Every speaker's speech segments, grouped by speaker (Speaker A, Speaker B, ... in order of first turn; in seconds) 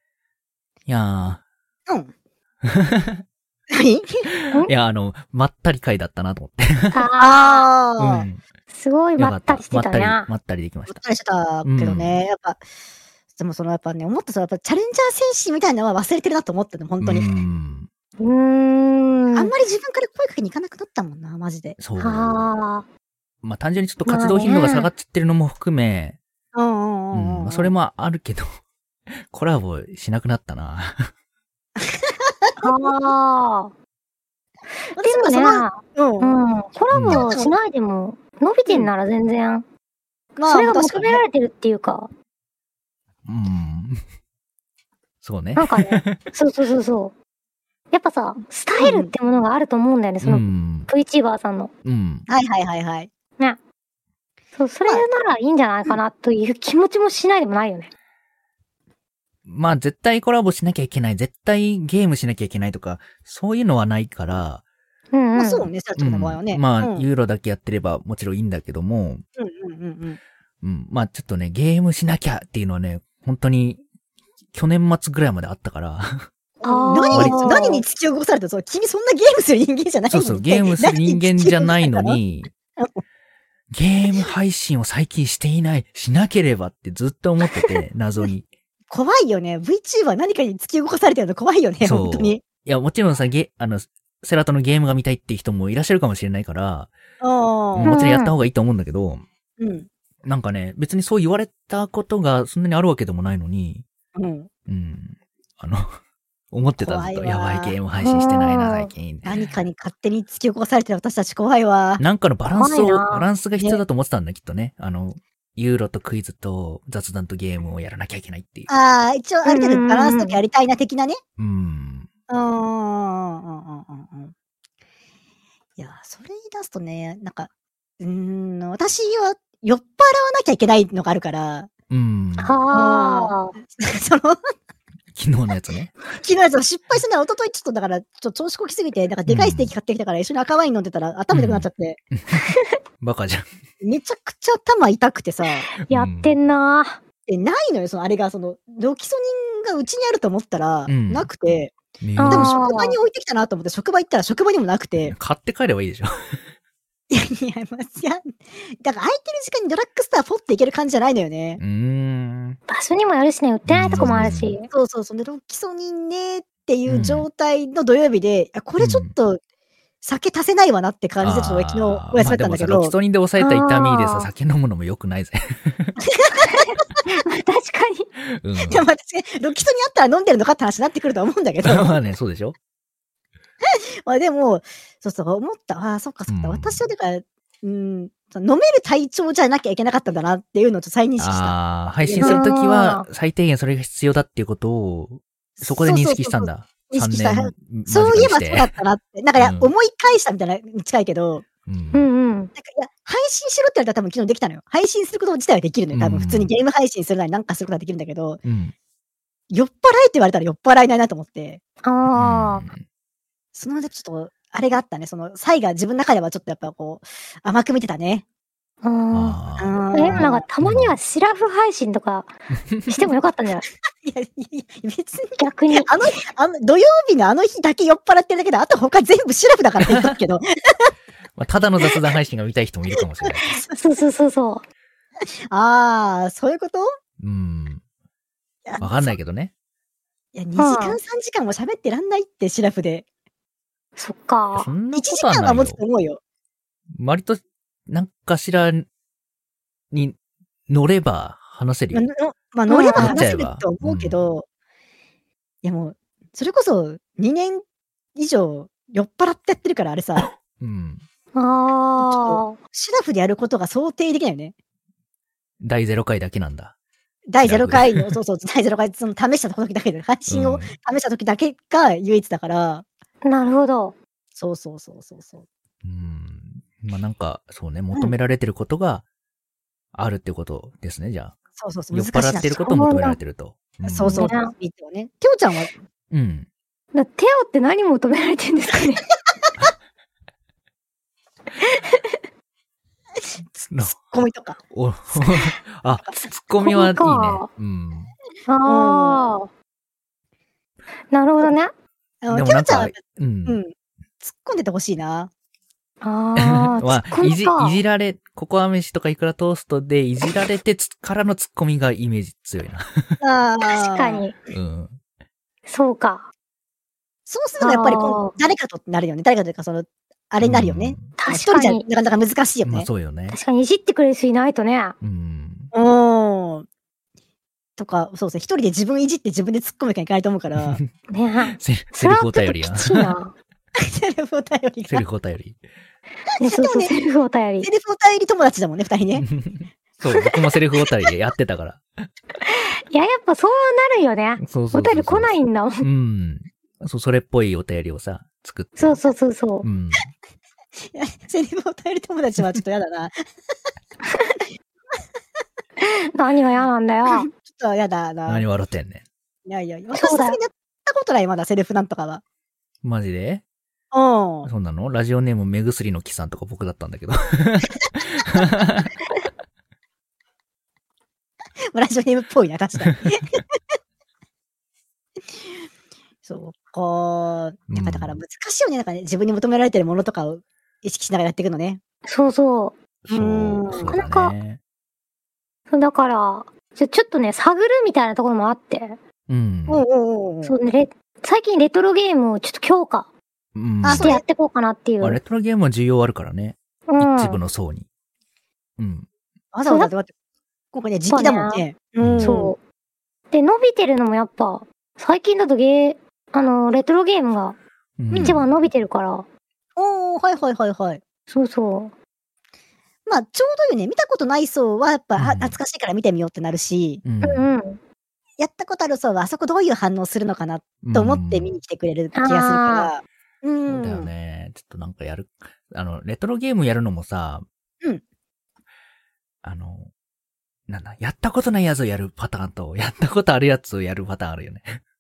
Speaker A: 0.9-1.4, 2.7-3.2, 4.7-7.0, 8.0-8.4, 9.2-11.0, 11.6-12.2, 17.0-17.9, 21.8-22.4, 23.4-26.2, 27.1-28.5, 29.1-31.1, 36.9-37.3, 43.3-44.0, 45.2-46.3, 50.2-50.9, 51.9-52.3, 59.5-64.6, 66.0-69.2, 70.6-73.8, 74.5-76.3, 77.1-77.6, 80.1-82.5, 83.7-88.5, 91.8-96.9, 97.8-99.3, 100.2-103.8, 104.7-105.9, 106.5-109.5, 112.0-118.7, 121.4-122.1, 131.9-132.6, 135.1-135.9, 139.3-139.7, 141.3-142.4, 143.0-143.5, 145.9-146.4, 150.9-151.3, 152.0-152.5, 155.0-156.4, 161.6-162.6, 163.7-164.6, 166.9-167.3, 168.8-169.1, 171.2-176.0, 178.4-178.9, 181.6-182.6, 186.3-186.8, 191.2-198.7, 199.4-199.7, 201.7-202.1, 205.9-206.5, 208.4-208.7, 212.1-212.8, 219.1-221.0, 222.7-223.0, 229.9-230.1, 231.4-233.6, 237.2-237.8, 238.8-239.5, 244.6-245.8, 246.9-248.9, 250.7-252.0, 252.9-254.2, 260.6-261.1, 265.6-266.7, 267.4-268.1, 270.3-270.7, 275.8-279.0, 279.9-281.3, 281.9-284.4, 286.1-286.5, 293.6-294.0, 294.7-298.1, 302.3-303.6, 306.4-313.2, 314.5-315.0, 320.4-321.1, 322.6-323.4, 325.0-325.7, 330.6-330.9, 331.4-333.1, 334.9-335.6, 339.2-341.8, 344.4-349.1, 349.6-350.1, 358.3-359.1, 362.8-363.4, 364.4-368.9, 377.7-378.2, 383.1-384.6, 389.3-389.8, 393.6-394.2, 395.0-397.9, 398.8-399.1, 402.0-402.4, 408.0-408.5, 415.2-415.6, 417.0-417.5, 420.8-421.6, 423.7-427.4, 429.4-429.9, 430.7-434.8
Speaker B: 3.7-4.3, 7.2-8.3, 10.9-12.6, 13.4-17.3, 19.3-21.8, 26.5-27.7, 31.8-32.6, 34.9-36.4, 37.1-37.5, 40.4-41.2, 48.8-49.1, 52.3-53.1, 65.3-67.1, 69.4-70.2, 76.6-82.2, 87.5-87.8, 88.9-92.4, 97.2-98.0, 99.6-99.9, 104.2-104.5, 106.8-107.8, 109.2-112.0, 118.7-121.2, 122.3-124.3, 125.8-127.5, 128.0-131.7, 132.7-134.4, 136.2-142.0, 143.8-145.7, 147.3-151.7, 152.3-155.1, 157.1-161.6, 164.7-169.4, 170.0-172.9, 176.2-176.7, 178.7-182.0, 183.7-192.4, 195.6-201.5, 202.6-208.4, 209.5-211.6, 213.5-218.2, 219.6-220.4, 224.0-230.9, 235.5-236.9, 238.7-239.2, 240.3-243.1, 244.9-246.2, 251.9-254.4, 255.6-257.6, 258.2-260.3, 262.0-264.5, 267.3-272.9, 274.4-275.4, 281.6-282.8, 283.9-285.7, 293.8-294.6, 298.6-299.2, 302.2-305.3, 313.2-314.2, 317.3-322.9, 325.7-326.6, 327.8-330.8, 333.8-335.0, 336.4-336.9, 337.6-339.3, 350.9-353.2, 357.1-358.5, 359.5-362.2, 363.9-364.5, 371.7-373.3, 376.2-381.8, 383.1-383.9, 389.7-390.6, 393.8-394.2, 399.5-400.1, 400.7-402.5, 408.1-408.4, 409.8-411.0, 413.1-417.0, 418.4-424.1
Speaker C: 6.9-7.7, 8.7-10.3, 18.2-19.5, 22.0-22.9, 24.1-24.9, 32.6-33.7, 34.9-39.6, 40.5-42.1, 45.6-47.1, 47.9-51.7, 54.6-57.9, 65.1-65.7, 76.6-77.8, 97.8-98.3, 108.0-108.9, 112.5-113.3, 119.5-120.4, 132.4-133.5, 142.3-142.7, 145.7-147.0, 152.2-153.0, 162.7-164.7, 173.4-174.3, 176.5-178.1, 192.2-193.1, 201.9-202.5, 211.8-212.7, 218.8-219.4, 219.9-222.3, 222.9-223.7, 225.4-226.1, 233.5-234.6, 240.6-241.0, 244.0-244.7, 252.7-253.2, 261.3-262.6, 273.2-274.0, 282.6-283.2, 284.1-284.5, 286.9-289.1, 291.6-292.2, 296.1-297.5, 298.5-299.5, 301.1-301.7, 306.0-307.8, 313.6-314.4, 315.7-316.3, 317.6-318.3, 321.2-321.8, 323.3-324.9, 331.1-333.3, 336.3-337.7, 342.4-345.9, 348.8-349.7, 355.8-357.3, 359.9-360.4, 382.1-382.8, 383.7-384.4, 385.7-389.0, 390.4-393.1, 394.0-395.2, 396.9-397.4, 401.1-401.6, 402.2-402.6, 403.3-407.6, 408.1-409.3, 411.3-411.9, 417.2-417.8, 422.1-422.9